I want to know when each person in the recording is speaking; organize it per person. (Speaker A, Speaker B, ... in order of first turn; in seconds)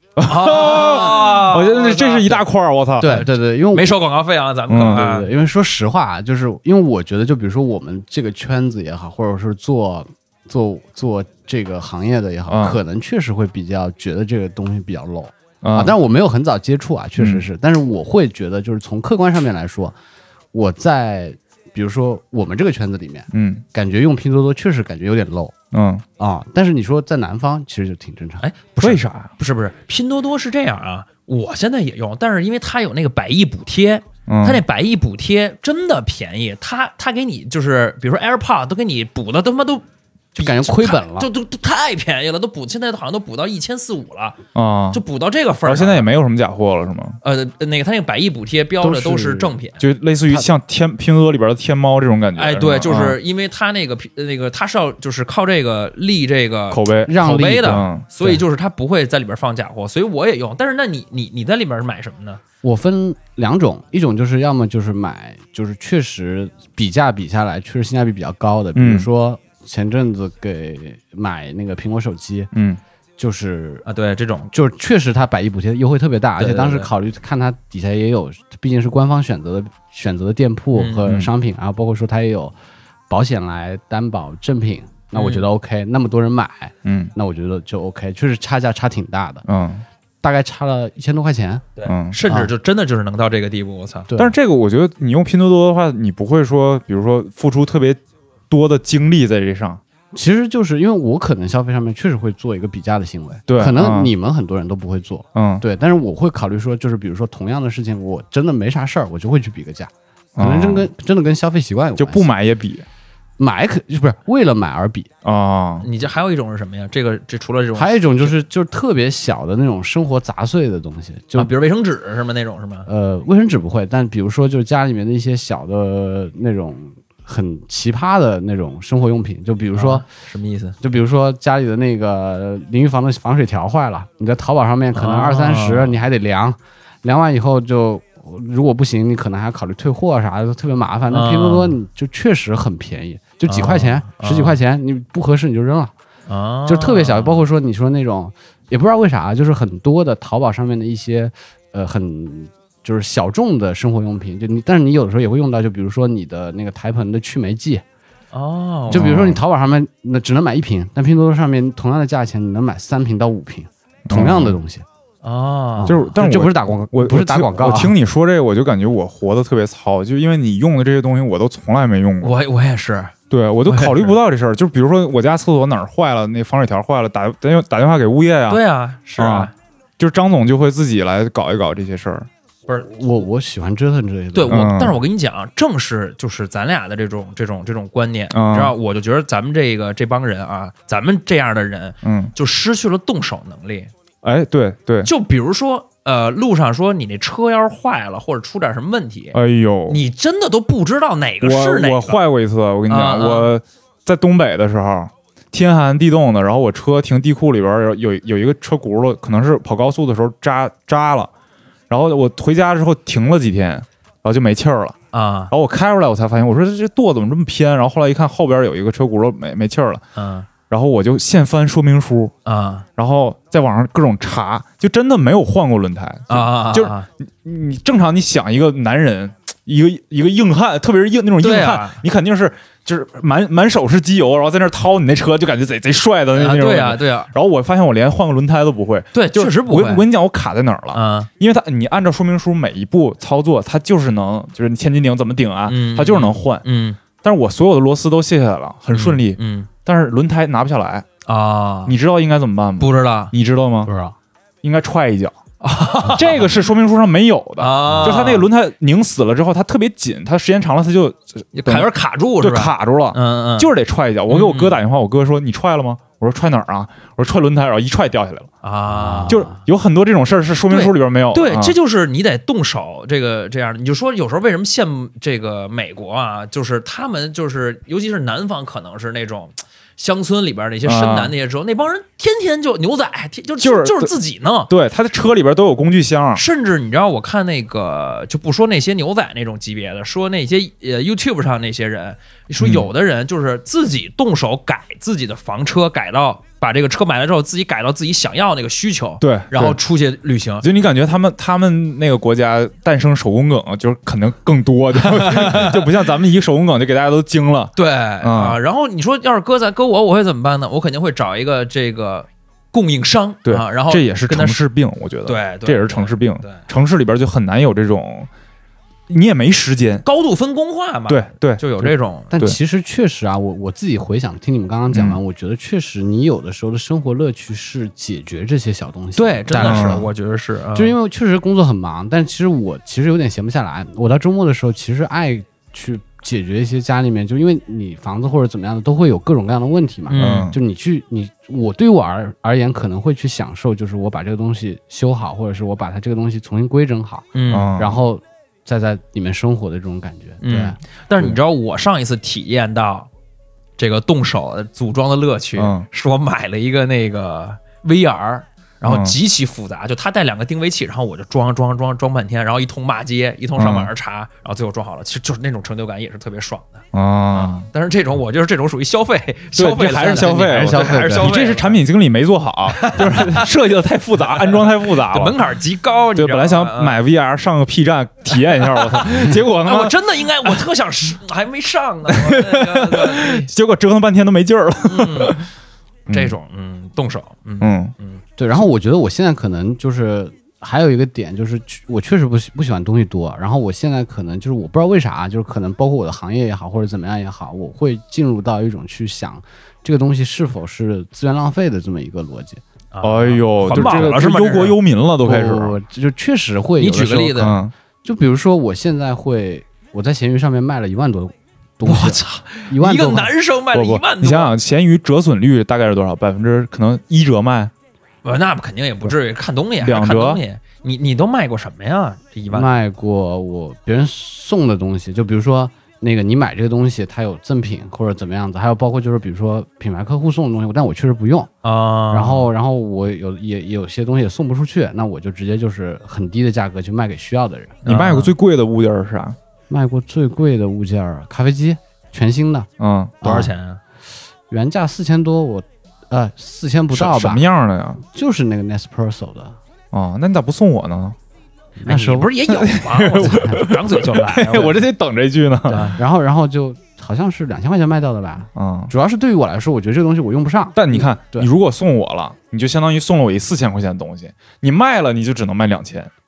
Speaker A: 0.2-3.2, 4.7-5.0, 12.5-12.8, 15.6-15.9, 17.2-17.4, 23.3-23.6, 25.7-26.0, 28.8-29.3, 34.3-34.6, 44.5-45.0, 45.6-47.2, 49.8-53.2, 56.7-58.0, 68.7-69.1, 72.5-72.8, 86.8-87.1, 89.5-89.8, 91.8-92.2, 94.2-99.8, 103.5-104.1, 105.3-105.6, 110.3-110.9, 112.0-112.8, 115.2-115.9, 158.9-159.4, 164.1-164.6, 165.9-172.3, 173.3-178.6, 179.1-182.3, 184.5-184.9, 188.3-188.7, 192.0-192.3, 194.2-195.1, 199.3-200.0, 201.4-211.3, 211.9-215.0, 215.5-220.0, 220.7-222.3, 223.0-246.6, 247.2-251.1, 251.8-253.9, 254.6-255.4, 256.0-268.5, 269.3-271.8, 280.8-281.3, 283.6-284.1, 284.7-286.4, 292.6-292.9, 299.2-299.8, 300.6-308.6, 313.4-318.3, 319.1-320.0, 321.1-322.6, 324.9-325.2, 329.6-330.0, 340.2-340.6, 347.5-348.0, 355.6-355.9, 358.8-359.1, 363.6-363.9, 366.9-367.7, 369.5-375.4, 376.1-380.6, 382.1-385.5, 386.1-386.4, 387.6-387.9, 403.0-405.8, 407.4-407.7, 413.7-417.7, 419.8-420.4, 437.9-439.4, 442.8-443.1, 446.9-448.0, 449.9-451.2, 452.5-455.9, 458.5-458.9, 460.8-466.1
Speaker B: 0.2-2.5, 3.0-5.3, 28.4-44.4, 44.9-46.1, 47.2-49.8, 52.4-62.4, 73.8-74.5, 76.4-76.9, 80.7-81.0, 85.1-85.5, 91.8-94.1, 115.8-118.3, 121.3-122.9, 129.7-130.8, 134.9-135.9, 141.1-141.8, 143.5-144.6, 146.3-147.4, 158.3-159.1, 165.2-166.1, 172.2-173.1, 173.7-174.2, 178.5-179.5, 184.3-193.9, 195.0-202.2, 202.9-203.5, 215.1-215.5, 220.1-220.5, 222.4-222.8, 226.3-227.1, 231.4-232.0, 236.3-237.3, 239.1-240.1, 240.9-241.3, 245.7-247.0, 248.9-249.7, 251.2-251.9, 252.8-253.3, 255.6-256.5, 257.6-258.5, 261.5-263.7, 264.3-264.8, 268.6-269.5, 270.7-284.7, 286.3-300.7, 305.0-305.8, 307.8-314.6, 315.2-316.6, 320.0-322.3, 329.1-330.9, 340.1-340.5, 347.3-347.7, 350.4-353.1, 353.8-371.8, 372.7-373.4, 374.3-377.0, 378.3-383.5, 384.8-385.4, 386.1-388.2, 402.9-404.8, 406.8-407.6, 411.8-414.5, 418.2-422.7, 431.6-432.5, 437.8-438.3, 443.2-443.8, 451.9-454.8
Speaker C: 3.0-4.0, 4.9-19.9, 20.5-25.5, 26.2-28.4, 40.4-41.3, 48.8-49.5, 57.1-58.4, 62.6-72.5, 73.2-73.8, 74.5-82.5, 83.1-89.5, 90.2-91.7, 92.2-92.5, 94.1-94.3, 100.1-112.3, 113.4-115.1, 117.7-121.5, 122.9-130.0, 130.8-145.9, 146.7-157.8, 158.9-164.8, 165.8-167.9, 182.8-184.7, 253.8-254.1, 268.9-269.4, 322.3-330.1, 330.7-350.8, 370.4-371.4, 388.4-402.6, 403.7-404.1, 405.2-413.3, 422.5-431.5, 432.1-437.8, 439.7-442.7, 443.2-443.5, 444.5-447.4, 448.1-449.5, 451.8-452.3, 453.2-453.6, 455.7-461.5